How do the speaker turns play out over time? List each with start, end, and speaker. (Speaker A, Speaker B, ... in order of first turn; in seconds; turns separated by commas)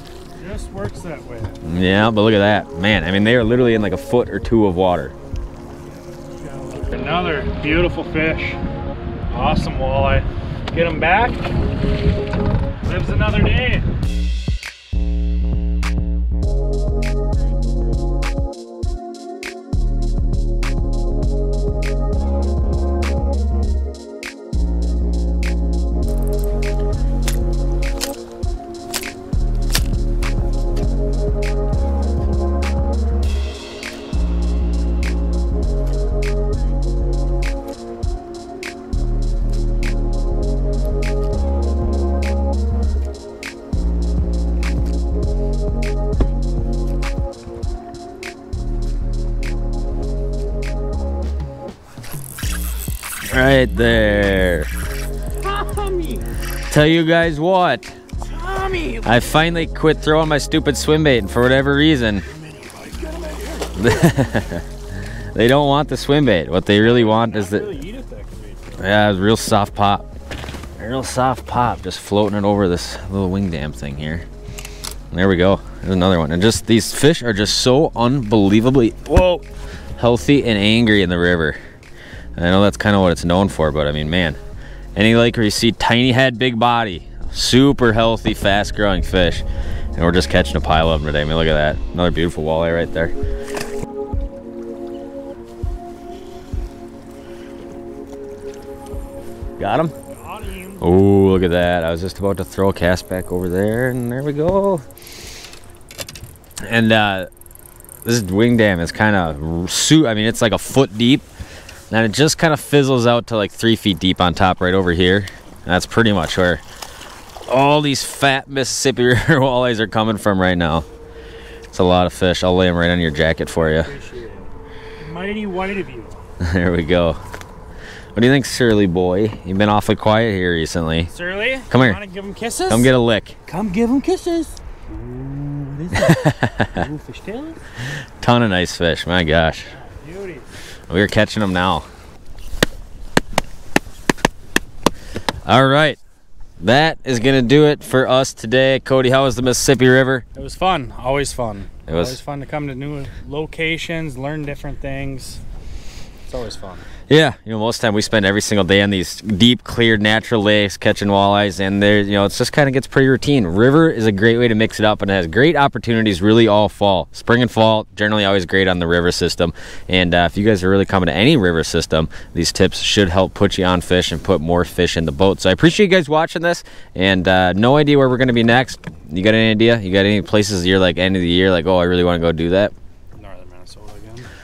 Speaker A: 0.3-1.6, Speaker B: 1.6-5.1, Speaker A: 5.8-8.6, Speaker A: 9.3-11.6, Speaker A: 12.8-13.9, Speaker B: 53.3-54.7, Speaker A: 55.4-56.3, Speaker B: 56.7-58.0, Speaker A: 58.2-59.3, Speaker B: 59.0-62.2, Speaker A: 62.2-64.5, Speaker B: 63.8-67.7, Speaker A: 66.7-68.9, Speaker B: 68.8-70.1, Speaker B: 70.8-74.2, Speaker B: 75.1-79.5, Speaker B: 80.0-81.6, Speaker B: 82.3-84.4, Speaker B: 85.0-93.1, Speaker B: 99.6-99.9, Speaker A: 100.0-100.8, Speaker B: 100.8-104.8, Speaker B: 106.6-107.3, Speaker B: 108.0-111.2, Speaker B: 111.9-116.6, Speaker B: 117.5-120.8, Speaker B: 121.7-123.9, Speaker A: 123.6-126.2, Speaker B: 126.4-127.2, Speaker B: 128.2-131.1, Speaker A: 131.1-132.9, Speaker B: 131.7-132.0, Speaker B: 132.7-133.4, Speaker A: 133.4-137.6, Speaker B: 135.9-136.8, Speaker B: 138.2-139.8, Speaker A: 139.7-140.5, Speaker B: 140.9-141.9, Speaker B: 145.4-146.0, Speaker B: 146.6-150.2, Speaker A: 150.3-155.4, Speaker B: 151.9-152.2, Speaker A: 156.3-156.9, Speaker B: 157.1-182.7, Speaker A: 183.1-184.3